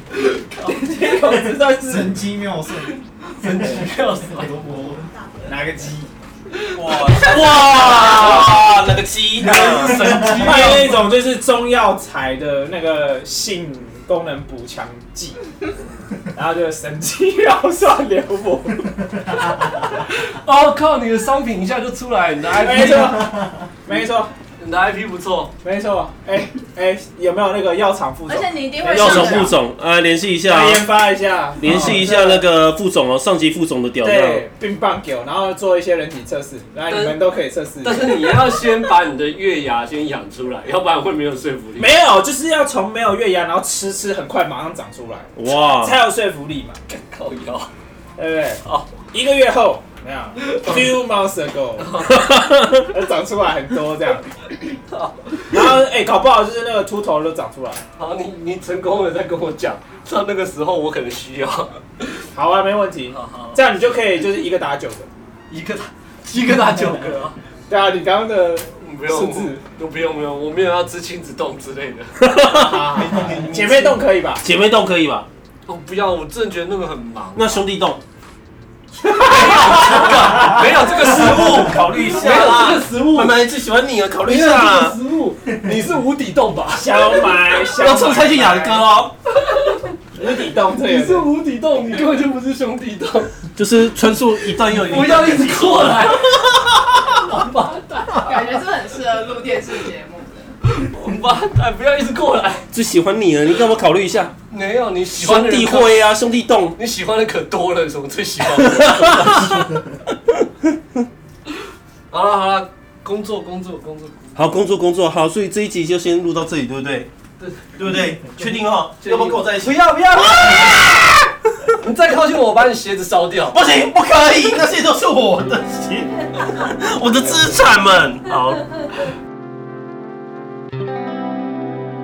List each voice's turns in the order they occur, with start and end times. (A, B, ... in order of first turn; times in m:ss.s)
0:00.2-0:00.9 A
0:00.7-0:02.2 B
0:01.2-0:05.1 C
0:03.2-0:04.6 A
0:05.5-0:06.1 B
0:06.6-0:08.7 A
0:06.8-0:10.9 D
0:09.5-0:11.1 A
0:09.7-0:10.3 C
0:10.2-0:15.4 B
0:16.3-0:20.0 B
0:20.2-0:23.3 A
0:22.6-0:24.3 B
0:24.6-0:25.5 A
0:25.6-0:29.6 B
0:28.3-0:29.6 E
0:28.9-0:30.9 D
0:30.5-0:32.5 B
0:31.6-0:34.5 D
0:34.0-0:38.3 B
0:36.9-0:37.2 A
0:37.8-0:41.9 A
0:41.8-0:46.8 B
0:45.4-0:46.0 D
0:46.9-0:47.7 A
0:48.2-0:52.0 B
0:48.6-0:48.9 A
0:50.4-0:51.1 A
0:51.8-0:52.2 A
0:52.1-0:52.9 D
0:52.8-0:54.3 B
0:54.7-0:55.6 A
0:55.5-0:57.8 B
0:58.0-1:02.2 A
1:02.3-1:05.1 B
1:03.1-1:03.6 A
1:05.5-1:07.4 A
1:07.7-1:09.6 B
1:08.8-1:12.2 A
1:12.2-1:13.0 D
1:12.4-1:14.4 B
1:13.0-1:14.0 A
1:14.4-1:15.3 D
1:15.7-1:17.6 A
1:17.4-1:18.0 D
1:19.0-1:23.4 A
1:19.6-1:25.0 D
1:24.2-1:27.4 A
1:26.8-1:28.9 B
1:27.8-1:29.1 D
1:29.4-1:29.9 A
1:30.2-1:31.3 B
1:30.8-1:33.3 A
1:33.6-1:36.0 D
1:34.6-1:38.5 A
1:38.2-1:40.5 E
1:40.6-1:42.6 A
1:42.7-1:44.4 D
1:44.5-1:46.1 A
1:45.1-1:46.8 D
1:46.8-1:49.7 A
1:48.6-1:49.8 D
1:52.1-1:54.4 A
1:54.4-1:57.1 D
1:57.4-1:58.5 A
1:57.8-2:01.3 D
1:59.0-2:01.0 A
2:01.8-2:03.7 A
2:03.5-2:08.8 D